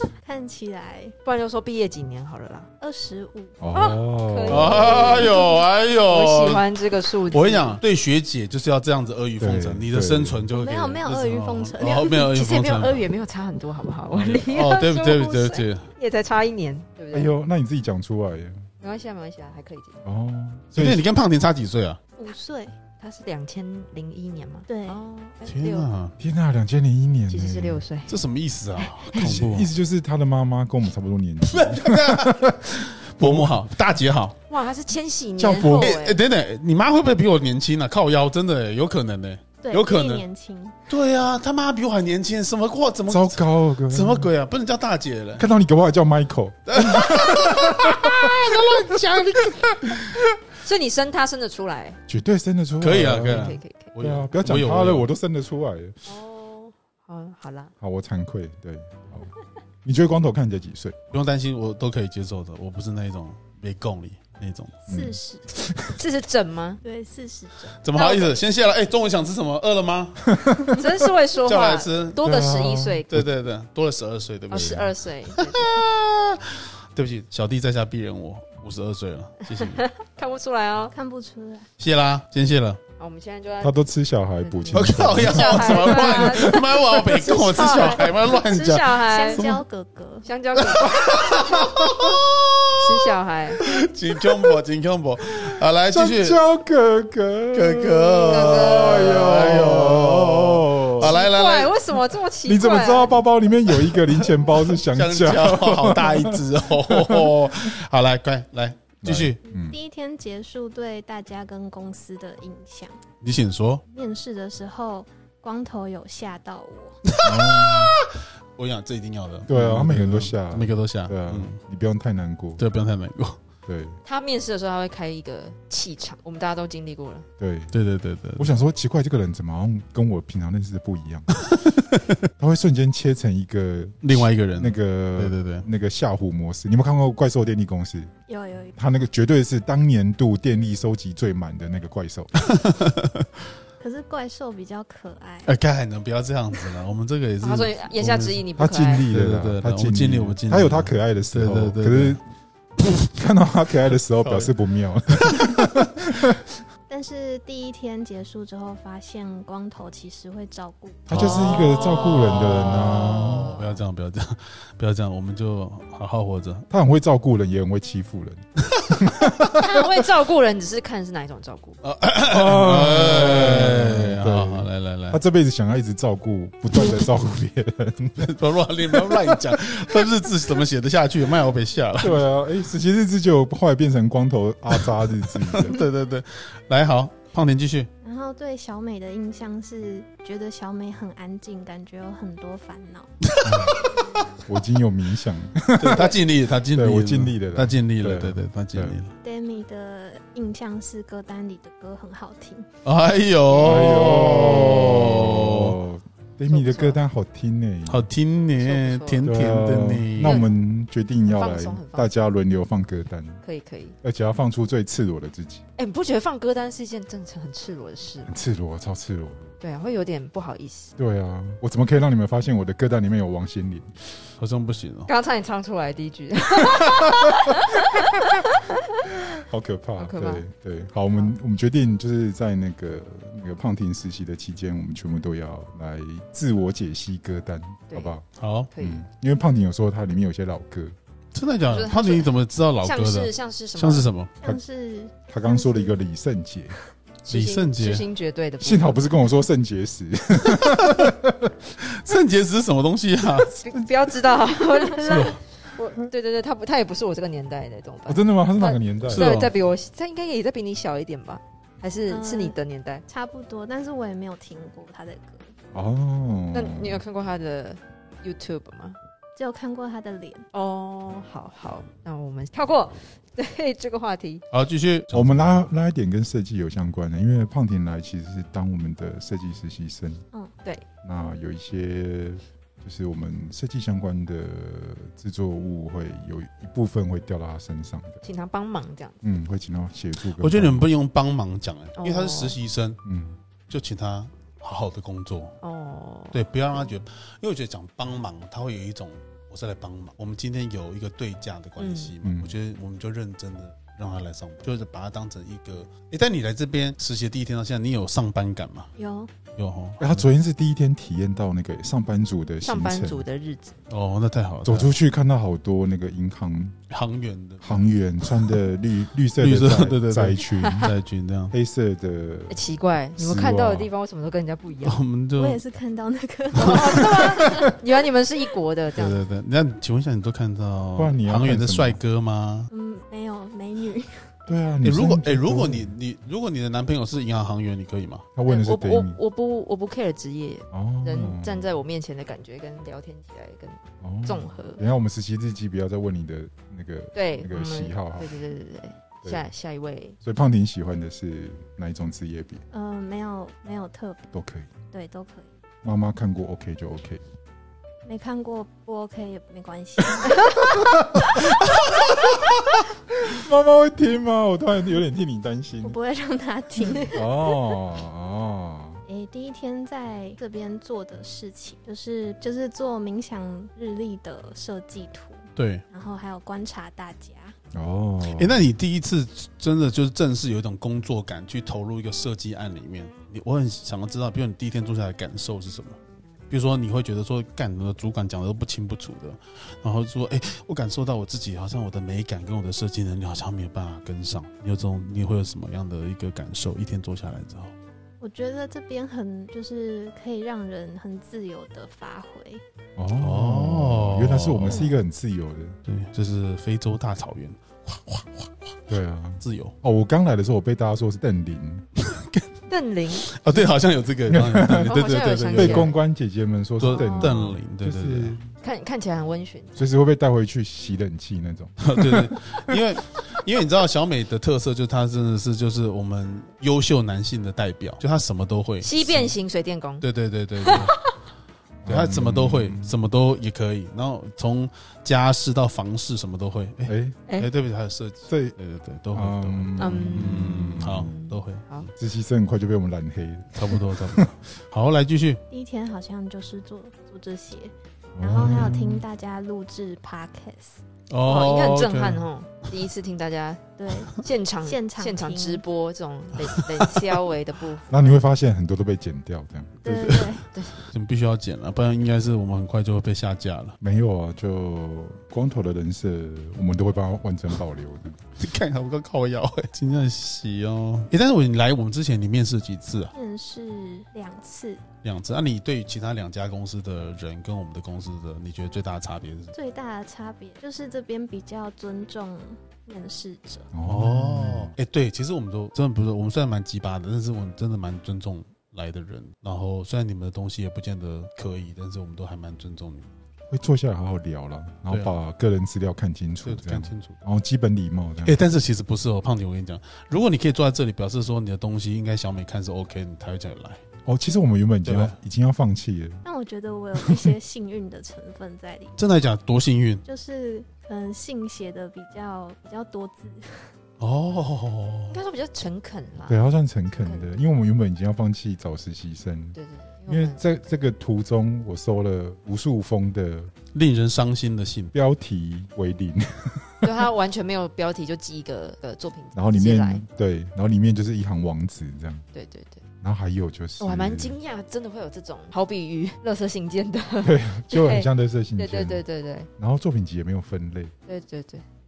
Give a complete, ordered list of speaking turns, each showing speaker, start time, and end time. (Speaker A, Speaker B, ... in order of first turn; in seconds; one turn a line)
Speaker A: 0.2-1.1
Speaker B: 1.2-2.7
Speaker A: 2.8-3.6
Speaker C: 3.6-5.3
Speaker B: 3.7-5.5
Speaker D: 4.5-6.7
Speaker B: 6.0-7.8
Speaker D: 7.2-13.1
Speaker C: 9.4-10.5
Speaker A: 10.5-12.3
Speaker B: 11.8-17.3
Speaker D: 14.1-15.9
Speaker C: 17.1-18.6
Speaker B: 18.8-20.0
Speaker C: 20.0-21.1
Speaker D: 20.7-22.0
Speaker A: 22.2-22.8
Speaker B: 23.0-25.9
Speaker A: 24.7-25.0
Speaker D: 25.4-26.1
Speaker C: 26.2-27.8
Speaker B: 27.3-28.2
Speaker D: 28.1-29.7
Speaker B: 28.8-29.1
Speaker C: 29.1-33.7
Speaker D: 31.4-34.4
Speaker B: 34.5-36.2
Speaker C: 35.4-36.0
Speaker D: 35.5-40.2
Speaker A: 39.6-40.7
Speaker D: 40.9-45.5
Speaker C: 43.1-44.3
Speaker C: 45.4-48.1
Speaker D: 46.7-49.7
Speaker B: 48.1-49.1
Speaker B: 50.6-52.0
Speaker C: 52.1-56.0
Speaker D: 52.8-55.1
Speaker B: 53.3-53.9
Speaker B: 56.0-57.7
Speaker C: 57.8-59.3
Speaker C: 59.8-60.9
Speaker D: 61.1-64.8
Speaker C: 64.9-66.0
Speaker A: 64.9-65.5
Speaker B: 65.9-66.8
Speaker A: 66.8-67.7
Speaker D: 67.8-70.3
Speaker B: 67.9-68.4
Speaker C: 70.4-70.7
Speaker B: 70.7-73.1
Speaker D: 71.4-72.2
Speaker C: 72.2-73.2
Speaker D: 73.1-79.8
Speaker B: 74.5-75.7
Speaker C: 74.5-74.9
Speaker B: 79.8-80.9
Speaker A: 80.9-81.7
Speaker D: 81.8-82.8
Speaker B: 83.0-83.8
Speaker C: 83.6-86.6
Speaker B: 84.4-89.5
Speaker D: 84.7-89.6
Speaker A: 87.0-90.3
Speaker B: 90.2-91.0
Speaker D: 90.6-92.6
Speaker B: 92.8-93.6
Speaker D: 93.6-96.4
Speaker C: 95.4-101.2
Speaker D: 97.5-101.8
Speaker B: 98.2-99.1
Speaker B: 101.0-103.2
Speaker C: 102.4-107.5
Speaker D: 103.7-109.4
Speaker C: 109.0-109.8
Speaker A: 109.7-113.0
Speaker D: 113.2-113.8
Speaker A: 113.9-117.0
Speaker D: 117.0-121.6
Speaker C: 117.2-118.0
Speaker C: 119.5-122.6
Speaker D: 122.6-123.4
Speaker C: 123.7-124.0
Speaker B: 124.0-127.2
Speaker C: 127.4-127.7
Speaker D: 127.7-128.5
Speaker C: 128.3-131.4
Speaker C: 132.4-138.1
Speaker D: 134.0-135.7
Speaker A: 138.3-138.8
Speaker C: 138.7-142.5
Speaker D: 142.6-143.0
Speaker A: 143.8-145.5
Speaker D: 145.4-152.2
Speaker B: 147.4-149.1
Speaker C: 148.6-152.2
Speaker C: 152.8-156.3
Speaker D: 153.9-154.6
Speaker A: 156.9-161.1
Speaker C: 161.1-163.5
Speaker D: 161.1-166.7
Speaker B: 161.1-163.8
Speaker C: 166.7-169.3
Speaker D: 168.9-169.6
Speaker B: 169.5-171.8
Speaker D: 171.8-175.2
Speaker C: 172.2-180.1
Speaker D: 178.2-182.2
Speaker C: 182.0-185.8
Speaker D: 185.4-187.9
Speaker A: 188.0-193.1
Speaker D: 193.3-193.7
Speaker C: 193.4-193.8
Speaker C: 194.4-196.2
Speaker D: 195.8-199.1
Speaker C: 196.7-199.0
Speaker A: 199.2-202.7
Speaker D: 202.8-205.8
Speaker B: 203.5-204.1
Speaker C: 203.6-208.1
Speaker B: 206.5-207.0
Speaker D: 207.8-210.5
Speaker B: 208.6-209.3
Speaker C: 209.2-213.4
Speaker B: 210.2-210.5
Speaker B: 211.2-212.1
Speaker B: 213.4-213.9
Speaker C: 214.0-215.6
Speaker B: 215.8-218.3
Speaker C: 218.2-219.5
Speaker B: 219.6-220.9
Speaker C: 220.9-224.0
Speaker D: 224.4-225.1
Speaker B: 225.1-228.4
Speaker C: 229.3-240.9
Speaker B: 230.0-230.4
Speaker B: 237.9-238.2
Speaker D: 238.3-238.7
Speaker B: 238.7-239.1
Speaker D: 241.3-244.3
Speaker B: 241.7-244.1
Speaker A: 244.4-246.1
Speaker C: 245.3-246.8
Speaker B: 247.2-249.1
Speaker D: 247.3-248.1
Speaker C: 248.6-251.5
Speaker D: 250.6-251.0
Speaker D: 251.8-253.5
Speaker B: 253.4-263.0
Speaker D: 255.1-255.4
Speaker C: 258.1-259.5
Speaker D: 259.1-259.5
Speaker A: 262.1-265.5
Speaker C: 265.7-267.0
Speaker B: 266.5-269.0
Speaker A: 269.4-270.5
Speaker B: 270.5-274.4
Speaker D: 274.5-275.6
Speaker C: 275.1-280.2
Speaker C: 281.0-288.2
Speaker B: 288.2-289.2
Speaker C: 289.2-290.9
Speaker D: 290.2-293.0
Speaker B: 292.0-292.6
Speaker C: 293.0-293.4
Speaker D: 293.7-295.6
Speaker B: 295.6-296.4
Speaker D: 296.3-308.9
Speaker B: 301.8-302.1
Speaker C: 302.2-302.6
Speaker A: 309.0-309.3
Speaker D: 309.5-310.3
Speaker C: 310.0-313.2
Speaker B: 312.6-313.8
Speaker D: 313.9-314.9
Speaker C: 314.6-316.8
Speaker D: 316.9-318.3
Speaker C: 317.6-320.9
Speaker D: 319.4-321.5
Speaker C: 321.5-322.7
Speaker B: 322.5-325.0
Speaker C: 323.2-323.9
Speaker D: 323.3-323.6
Speaker D: 324.8-325.6
Speaker A: 325.4-327.5
Speaker D: 326.5-326.9
Speaker B: 326.6-329.2
Speaker C: 327.1-327.6
Speaker D: 328.9-332.7
Speaker C: 330.9-332.0
Speaker A: 332.7-334.3
Speaker C: 334.5-335.9
Speaker D: 334.8-338.3
Speaker C: 338.3-339.2
Speaker B: 338.4-344.8
Speaker C: 340.7-341.7
Speaker C: 344.0-348.3
Speaker B: 347.1-350.2
Speaker C: 350.2-352.6
Speaker A: 352.7-354.3
Speaker C: 354.3-354.7
Speaker A: 354.9-355.5
Speaker C: 355.8-357.2
Speaker A: 358.0-360.7
Speaker C: 360.7-361.2
Speaker C: 363.3-365.9
Speaker A: 365.8-367.3
Speaker C: 367.1-369.0
Speaker A: 369.1-377.6
Speaker D: 375.6-375.8
Speaker C: 377.7-378.6
Speaker D: 378.2-386.0
Speaker D: 386.5-397.7
Speaker A: 398.2-402.6
Speaker C: 403.0-405.8
Speaker D: 403.1-404.9
Speaker D: 405.8-408.5
Speaker C: 408.9-411.9
Speaker D: 409.4-409.7
Speaker D: 412.1-412.4
Speaker B: 412.7-413.2
Speaker D: 413.1-415.9
Speaker C: 414.3-414.9
Speaker B: 414.8-415.9
Speaker C: 415.5-418.5
Speaker D: 416.8-418.4
Speaker A: 416.9-417.3
Speaker B: 418.6-419.9
Speaker C: 419.8-422.3
Speaker D: 421.8-429.3
Speaker B: 428.8-430.1
Speaker D: 430.0-431.0
Speaker B: 430.6-430.9
Speaker C: 431.8-432.9
Speaker D: 431.9-441.9
Speaker C: 436.9-437.2
Speaker C: 438.3-438.6
Speaker C: 439.1-441.1
Speaker B: 439.8-441.9
Speaker C: 442.0-444.4
Speaker D: 443.5-445.4
Speaker A: 445.5-450.8
Speaker C: 448.1-449.0
Speaker D: 451.1-452.2
Speaker B: 451.2-458.2
Speaker A: 453.8-455.6
Speaker C: 457.9-459.9
Speaker A: 459.8-460.4
Speaker D: 459.9-463.8
Speaker B: 460.5-460.9
Speaker C: 463.8-468.2
Speaker D: 468.4-473.1
Speaker A: 473.1-474.8
Speaker D: 475.0-479.5
Speaker A: 479.5-483.7
Speaker C: 483.7-484.7
Speaker D: 483.9-493.1
Speaker C: 493.5-498.4
Speaker D: 494.9-495.1
Speaker D: 496.4-497.2
Speaker D: 498.2-503.8
Speaker C: 504.0-506.2
Speaker D: 504.8-505.2
Speaker A: 506.2-509.0
Speaker D: 509.0-510.0
Speaker A: 510.0-513.7
Speaker D: 514.0-515.2
Speaker B: 515.1-517.3
Speaker C: 516.2-523.5
Speaker B: 519.5-520.4
Speaker D: 523.7-524.9
Speaker C: 524.9-527.0
Speaker B: 526.8-530.0
Speaker C: 529.3-532.2
Speaker B: 532.3-532.8
Speaker C: 533.0-534.4
Speaker B: 533.8-539.5
Speaker C: 537.2-539.0
Speaker C: 539.6-540.9
Speaker B: 541.0-541.6